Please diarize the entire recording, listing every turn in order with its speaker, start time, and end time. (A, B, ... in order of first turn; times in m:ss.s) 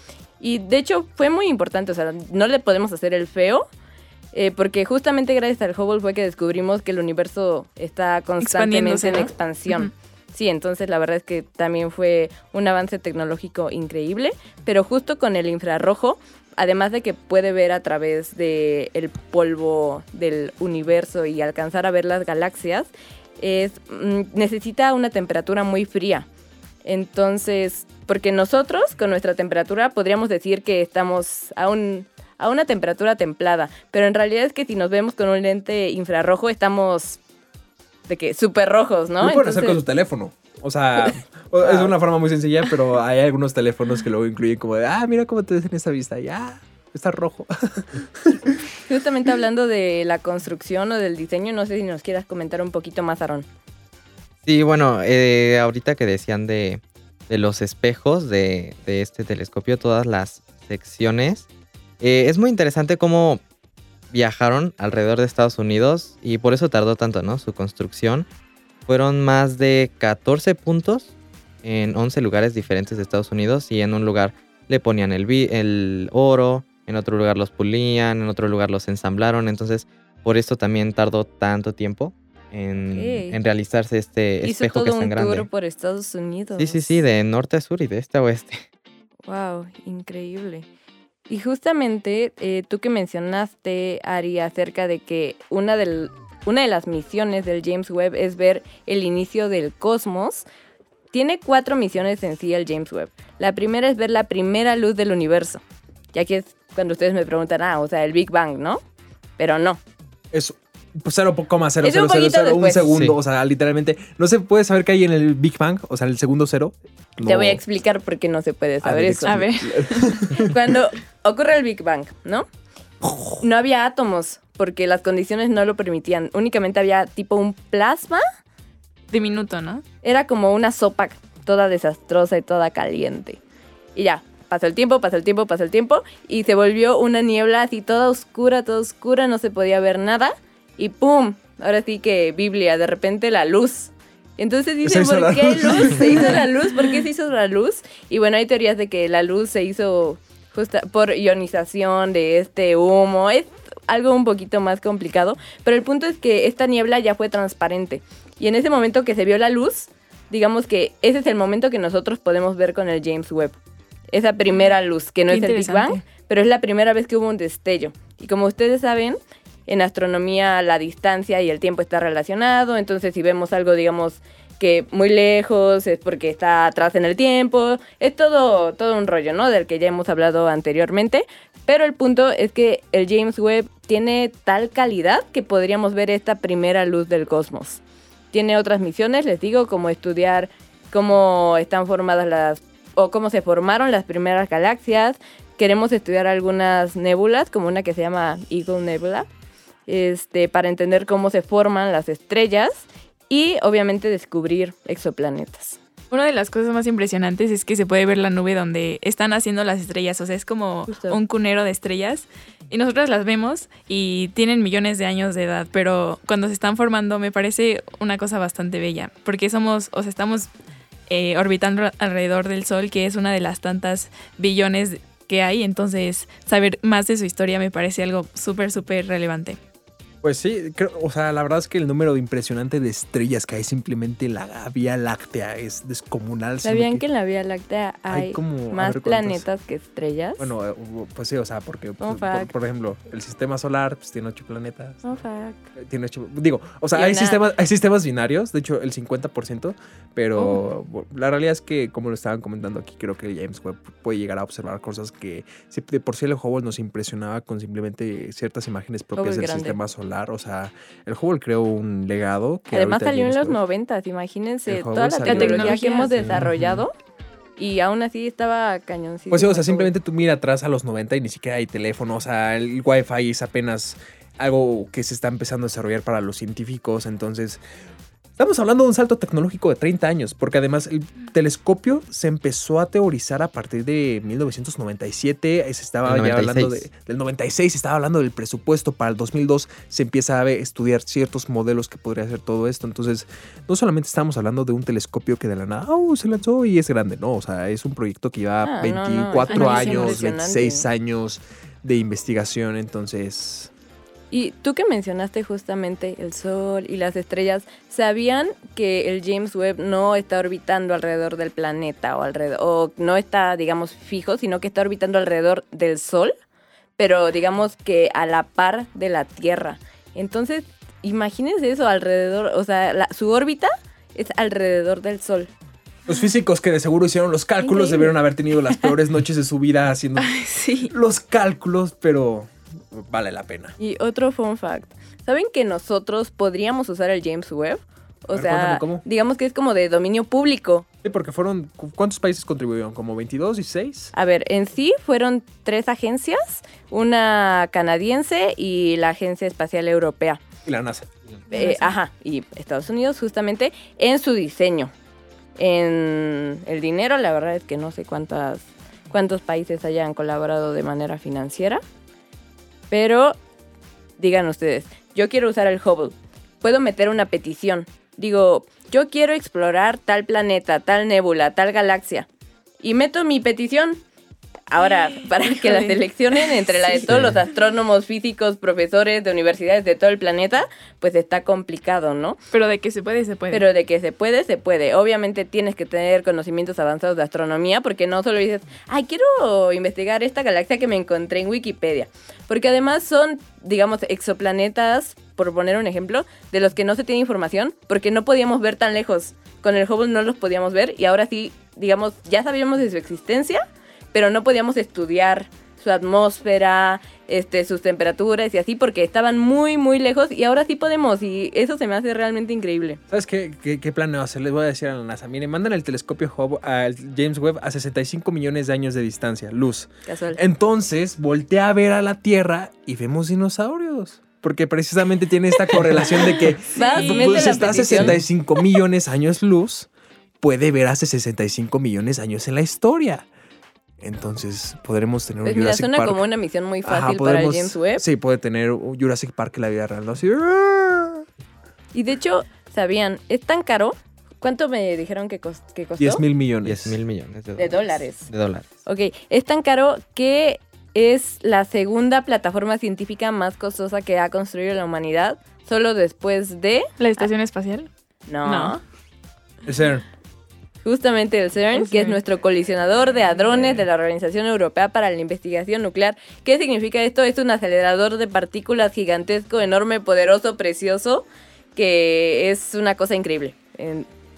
0:00.4-0:03.7 A
0:04.3-0:26.3 A
0:08.4-0:09.9 B
0:26.8-0:37.2 A
0:38.1-0:39.8 A
0:39.2-0:48.6 C
0:41.6-0:41.9 A
0:48.9-0:53.5 A
0:54.4-1:01.5 D
1:02.0-1:03.4 D
1:04.1-1:08.3 D
1:08.9-1:11.1 D
1:11.6-1:25.5 D
1:22.9-1:23.4 A
1:24.4-1:27.0 A
1:26.6-1:28.6 D
1:29.3-1:30.7 A
1:31.3-1:40.5 A
1:41.1-1:45.6 A
1:46.1-1:48.8 A
1:49.4-1:49.8 A
1:50.3-1:57.6 C
1:51.8-1:52.9 A
1:52.9-1:53.2 D
1:57.2-1:59.4 A
1:58.8-2:00.6 C
1:59.3-2:00.2 B
2:00.3-2:02.5 A
2:03.0-2:03.4 C
2:03.4-2:08.2 A
2:09.1-2:09.8 B
2:10.0-2:13.4 A
2:14.0-2:43.6 A
2:24.8-2:26.4 C
2:44.1-3:07.8 A
2:45.3-2:46.0 B
3:08.3-3:19.3 A
3:19.9-3:25.8 A
3:26.1-3:40.5 B
3:30.9-3:31.2 A
3:41.1-3:49.6 B
3:50.2-3:57.0 C
3:56.6-4:00.5 A
3:58.1-3:59.4 C
4:00.4-4:05.0 C
4:02.0-4:02.5 A
4:05.0-4:05.7 A
4:05.8-4:23.6 C
4:06.9-4:07.4 A
4:19.2-4:19.8 A
4:22.7-4:26.9 A
4:24.7-4:26.8 C
4:25.3-4:26.5 B
4:27.6-4:29.9 A
4:29.3-4:37.6 C
4:38.4-5:03.7 C
4:46.0-4:46.8 D
4:58.6-5:00.9 A
4:59.5-5:00.2 B
5:04.3-5:16.3 A
5:17.0-5:25.5 A
5:26.1-5:30.4 C
5:27.6-5:28.2 A
5:30.2-5:30.9 B
5:30.9-5:33.8 C
5:33.8-5:40.9 A
5:38.3-5:39.0 C
5:41.0-5:44.1 C
5:44.1-5:50.4 A
5:50.7-5:51.1 C
5:51.5-5:52.0 B
5:51.5-5:54.9 A
5:55.6-6:01.8 A
6:02.9-6:03.4 A
6:04.2-6:12.3 A
6:12.8-6:14.0 A
6:14.7-6:22.4 A
6:14.9-6:17.0 B
6:22.5-6:23.6 B
6:23.5-6:53.0 A
6:53.1-7:09.9 C
7:00.1-7:00.4 A
7:06.0-7:08.2 B
7:06.7-7:08.2 A
7:10.4-7:13.3 C
7:14.0-7:16.2 C
7:15.4-7:18.0 A
7:16.8-7:21.2 C
7:21.9-7:26.2 A
7:26.0-7:27.0 C
7:26.6-7:28.7 D
7:27.6-7:28.3 A
7:28.9-7:37.3 A
7:37.0-7:37.9 B
7:38.3-7:38.8 A
7:38.4-7:38.8 B
7:39.7-7:40.0 C
7:40.8-7:54.1 A
7:41.7-7:42.2 B